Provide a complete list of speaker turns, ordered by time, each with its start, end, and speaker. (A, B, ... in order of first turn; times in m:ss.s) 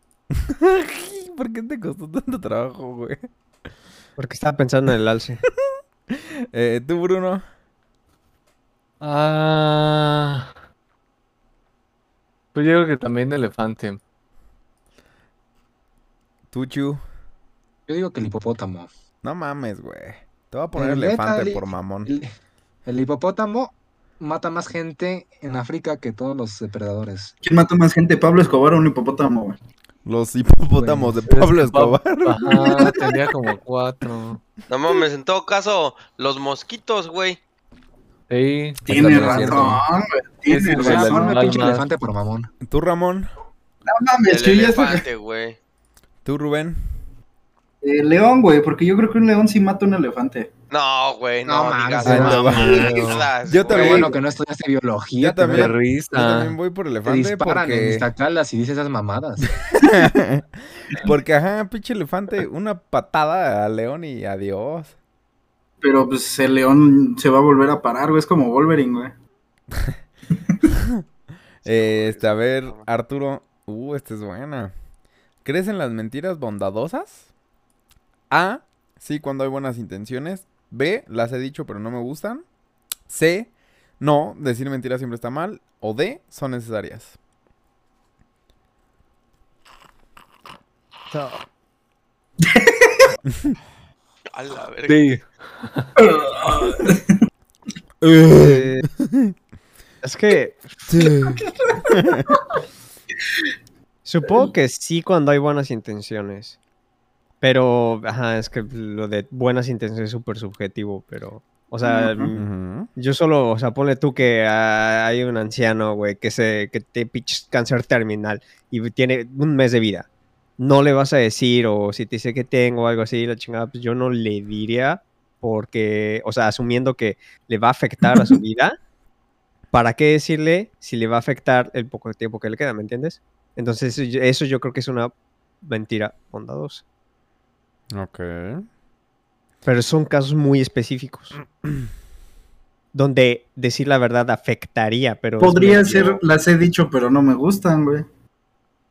0:00.4-0:03.2 A
0:04.2-0:05.4 B
0:06.1-0:07.4 A
0:09.0-0:10.5 C
0:12.5-0:14.0 C
0:16.5-0:17.0 A
0:17.9-0:18.9 D
0:19.2-0:22.1 A
0:20.7-0:22.3 D
0:22.8-0:27.3 D
0:27.4-0:29.6 E
0:30.0-0:33.1 A
0:30.8-0:31.1 D
0:31.2-0:34.4 C
0:34.7-0:37.4 F
0:38.3-0:39.6 C
0:38.8-0:41.6 E
0:38.8-0:39.8 A
0:39.0-0:39.7 D
0:40.5-0:41.9 C
0:40.7-0:42.5 D
0:42.6-0:43.3 A
0:43.8-0:45.0 E
0:44.3-0:45.6 F
0:46.2-0:46.8 A
0:47.8-0:50.5 E
0:50.7-0:54.1 F
0:51.4-0:55.7 D
0:52.0-0:52.8 A
0:52.0-0:53.0 C
0:52.6-0:52.9 B
0:53.5-0:54.1 A
0:55.2-0:58.1 A
0:55.4-0:56.6 C
0:57.0-0:59.5 D
0:59.7-1:04.9 A
1:05.8-1:09.1 E
1:10.8-1:11.0 A
1:11.6-1:12.8 F
1:11.6-1:14.7 A
1:15.4-1:17.2 A
1:18.3-1:22.4 A
1:23.1-1:27.1 A
1:31.1-1:31.4 B
1:32.4-1:33.1 E
1:34.3-1:35.0 F
1:34.9-1:35.9 C
1:36.0-1:37.1 E
1:38.0-1:39.3 A
1:38.3-1:38.8 B
1:40.0-1:40.8 B
1:40.9-1:42.3 A
1:41.1-1:42.0 E
1:44.0-1:46.6 B
1:44.2-1:44.5 E
1:47.4-1:52.4 B
1:51.8-1:52.3 E
1:52.3-1:52.9 A
1:52.9-2:00.1 B
2:00.6-2:08.8 B
2:09.7-2:16.8 B
2:17.9-2:18.6 A
2:19.6-2:21.4 B
2:22.9-2:26.2 B
2:25.4-2:28.0 E